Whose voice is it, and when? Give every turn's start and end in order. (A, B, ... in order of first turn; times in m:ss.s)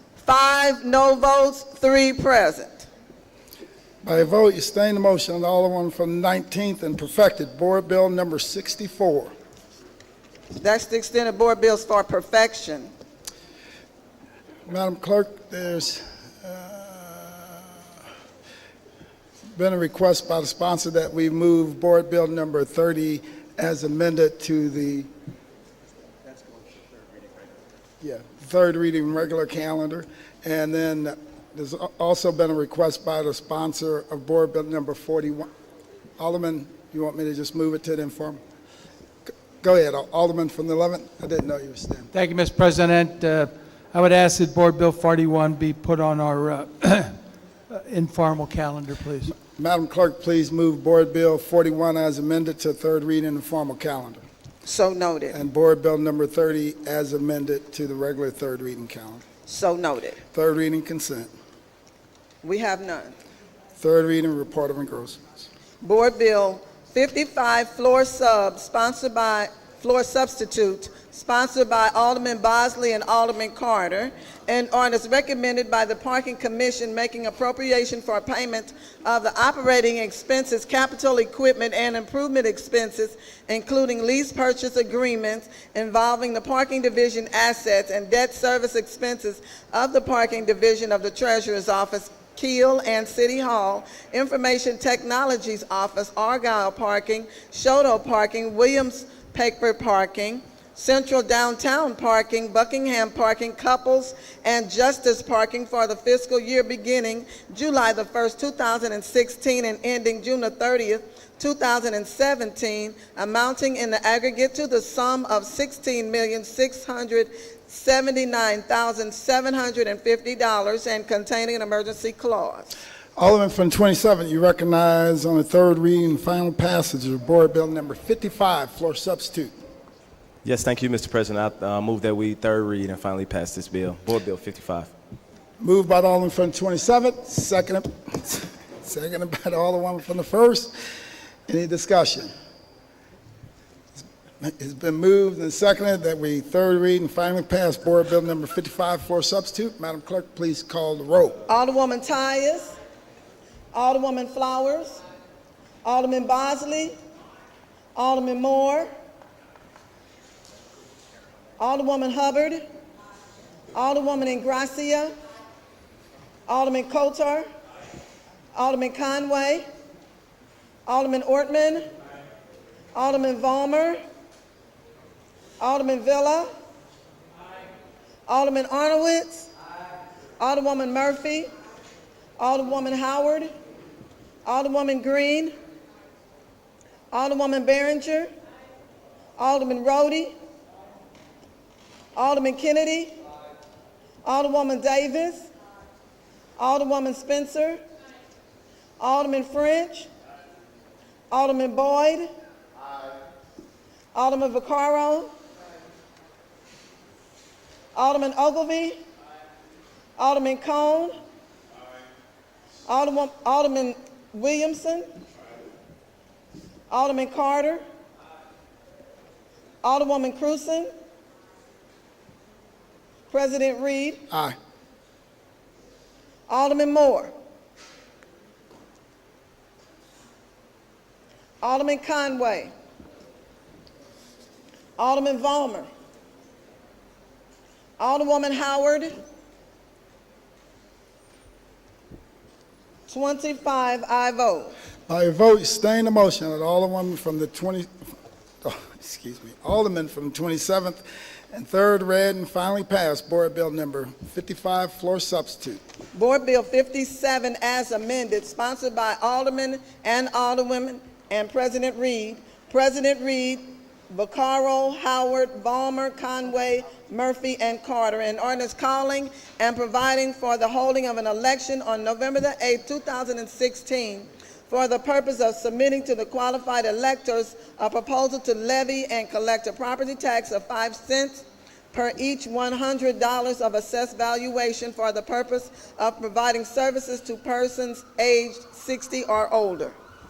0:00.2-0:02.9 A
0:04.0-0:09.3 B
0:10.6-0:12.9 A
0:14.7-0:17.8 B
0:19.5-0:25.1 B
0:28.0-0:35.5 B
0:36.2-0:38.4 B
0:39.3-0:42.1 B
0:42.1-0:47.1 C
0:47.7-0:49.3 C
0:49.4-0:54.2 B
0:54.6-0:55.4 A
0:55.3-0:59.2 B
0:59.5-1:00.2 A
1:00.3-1:01.3 B
1:02.4-1:03.2 A
1:03.8-1:05.4 B
1:05.8-2:02.7 A
2:03.2-2:09.5 B
2:10.4-2:14.9 D
2:15.6-2:20.7 B
2:21.5-2:22.3 B
2:24.4-2:31.4 B
2:31.5-2:32.7 A
2:33.7-2:35.0 A
2:35.8-2:36.9 A
2:37.9-2:38.9 A
2:41.6-2:42.6 A
2:43.7-2:45.1 A
2:46.5-2:47.4 A
2:48.5-2:49.6 A
2:50.8-2:51.9 A
2:52.9-2:54.0 A
2:55.6-2:56.5 A
2:58.3-2:59.5 A
3:00.4-3:01.5 A
3:02.4-3:03.5 A
3:04.4-3:05.5 A
3:07.1-3:08.3 A
3:09.4-3:10.3 A
3:12.1-3:13.1 A
3:14.2-3:15.5 A
3:16.6-3:17.8 A
3:19.0-3:20.1 A
3:21.3-3:22.3 A
3:24.1-3:25.3 A
3:27.9-3:29.0 A
3:30.2-3:31.2 A
3:32.9-3:35.1 A
3:36.9-3:37.8 A
3:39.8-3:40.9 A
3:43.3-3:44.2 A
3:46.5-3:47.3 A
3:51.6-3:52.7 A
3:55.0-3:55.9 A
3:58.0-3:59.1 A
4:03.1-4:04.7 A
4:05.1-4:15.8 B
4:16.1-4:49.9 A